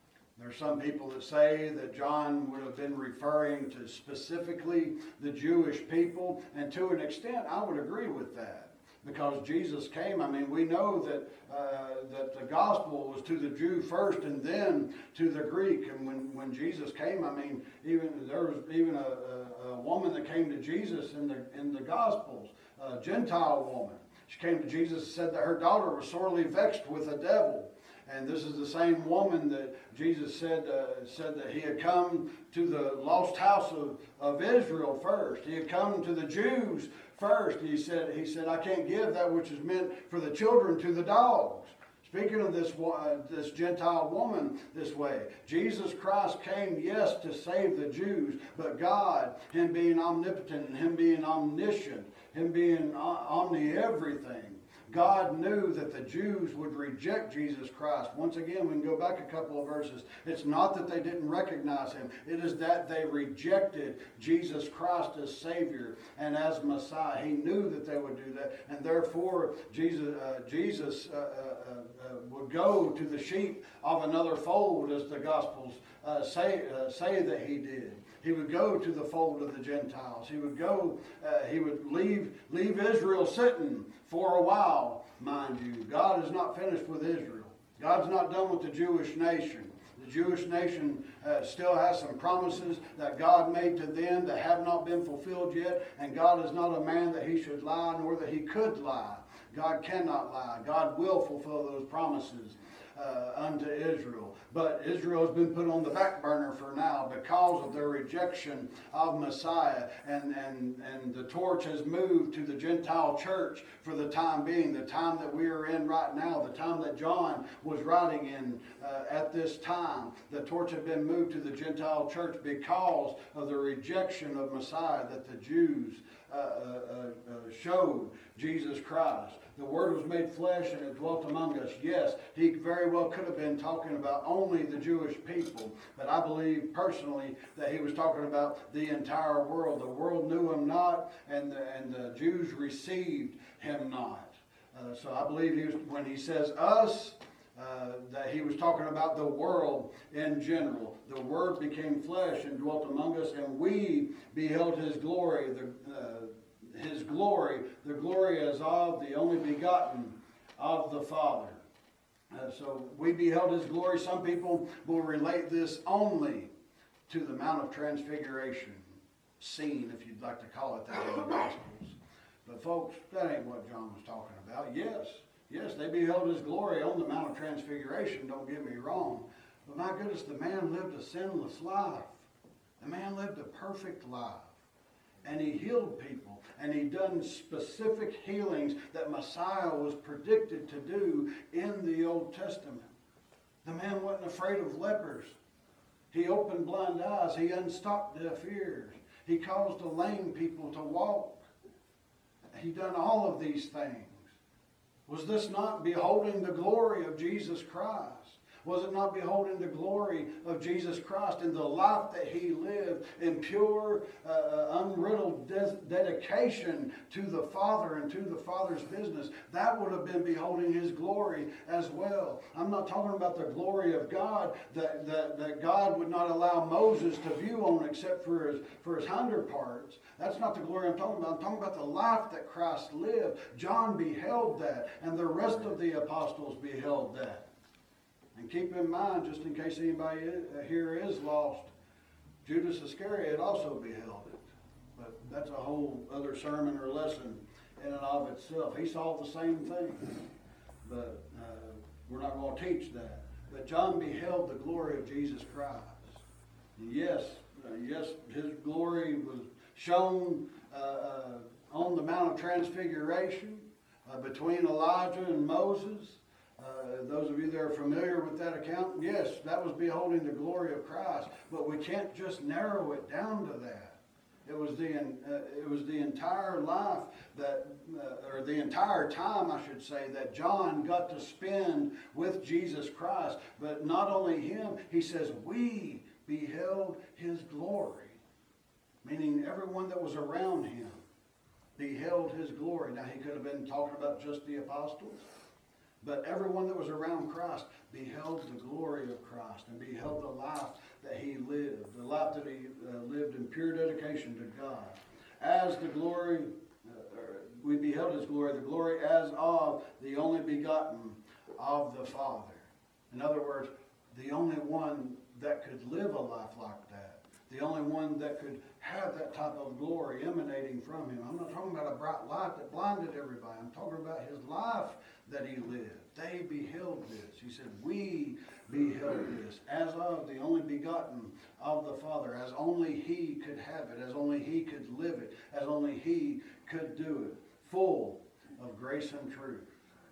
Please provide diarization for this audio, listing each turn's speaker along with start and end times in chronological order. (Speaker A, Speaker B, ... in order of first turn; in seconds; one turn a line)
Speaker A: 0.3-161.6
Speaker A: 162.3-166.5
Speaker A: 167.1-182.2
Speaker A: 182.8-184.6
Speaker A: 185.2-192.9
Speaker A: 193.6-195.3
Speaker A: 196.1-201.4
Speaker A: 202.5-204.3
Speaker A: 205.1-237.4
Speaker A: 238.3-241.7
Speaker A: 242.4-250.2
Speaker A: 250.8-256.2
Speaker A: 256.8-288.2
Speaker A: 289.0-291.0
Speaker A: 291.8-295.2
Speaker A: 296.0-339.7